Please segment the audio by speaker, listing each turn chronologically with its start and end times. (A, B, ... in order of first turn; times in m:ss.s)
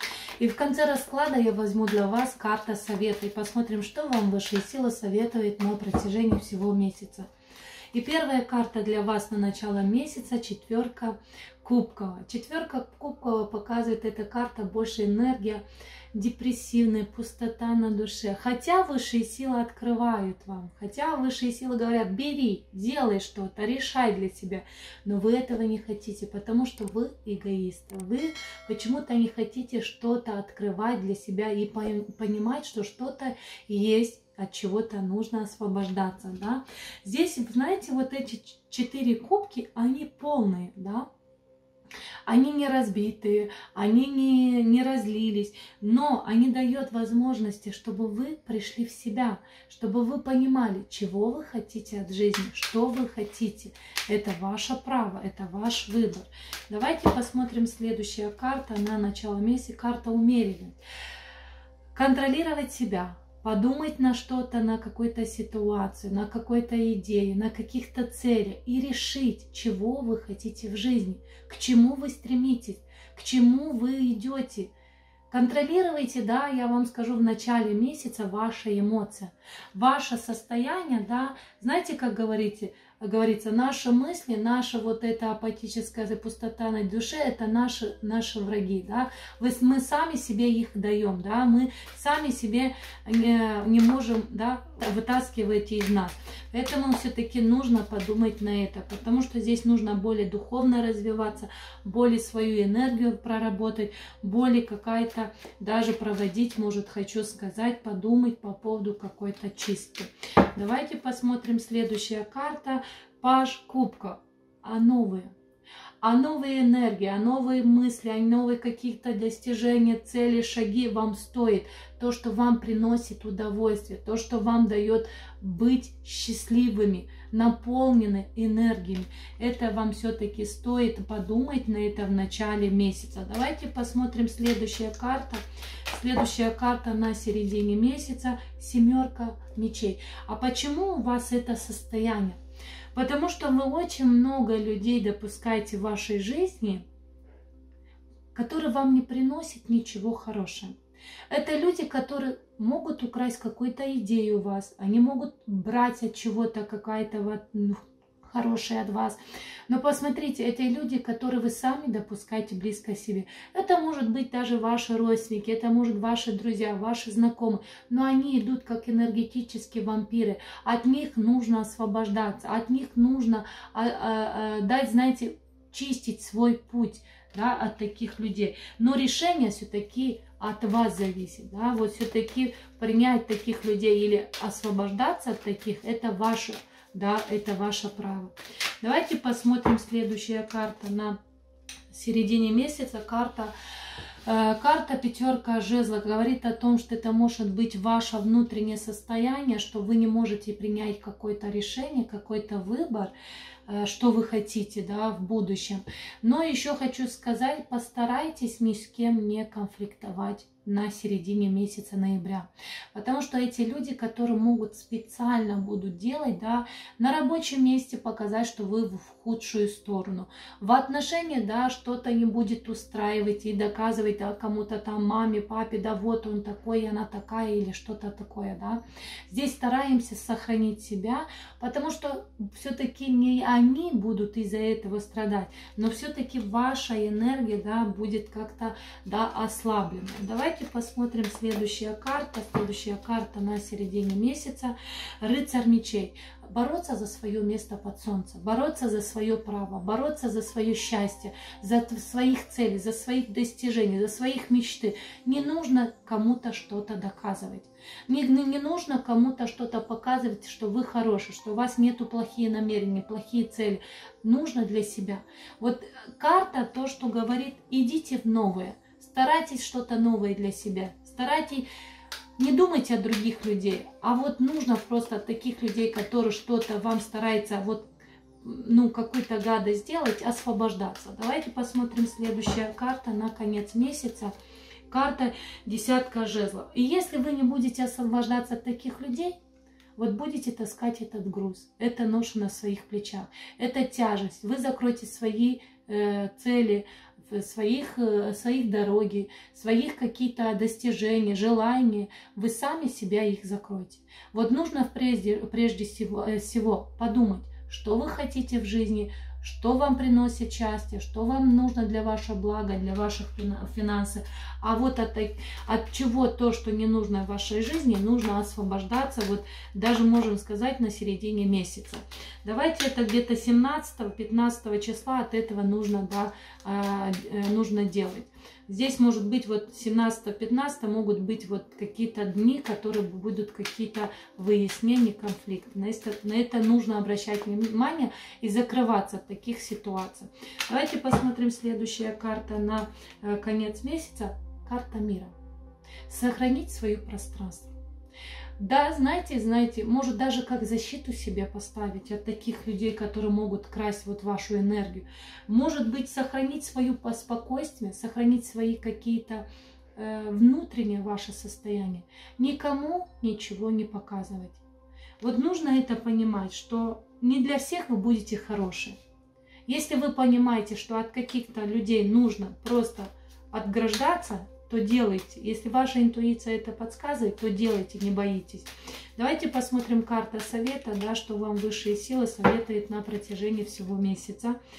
0:00.4-0:07.3 A
0:07.9-0:41.1 A
0:42.3-1:00.8 A
1:01.9-1:14.7 A
1:15.3-1:55.3 A
1:56.0-2:22.4 A
2:22.9-2:26.8 A
2:28.3-2:30.8 A
2:31.3-3:11.2 A
3:11.9-3:13.5 A
3:14.2-3:23.1 A
3:23.7-4:31.7 A
4:32.4-4:37.9 A
4:38.4-4:44.3 A
4:44.9-4:49.3 A
4:50.0-5:45.3 A
5:46.1-5:47.7 A
5:48.6-5:59.4 A
6:00.0-6:04.6 A
6:05.2-6:09.0 A
6:09.6-6:24.6 A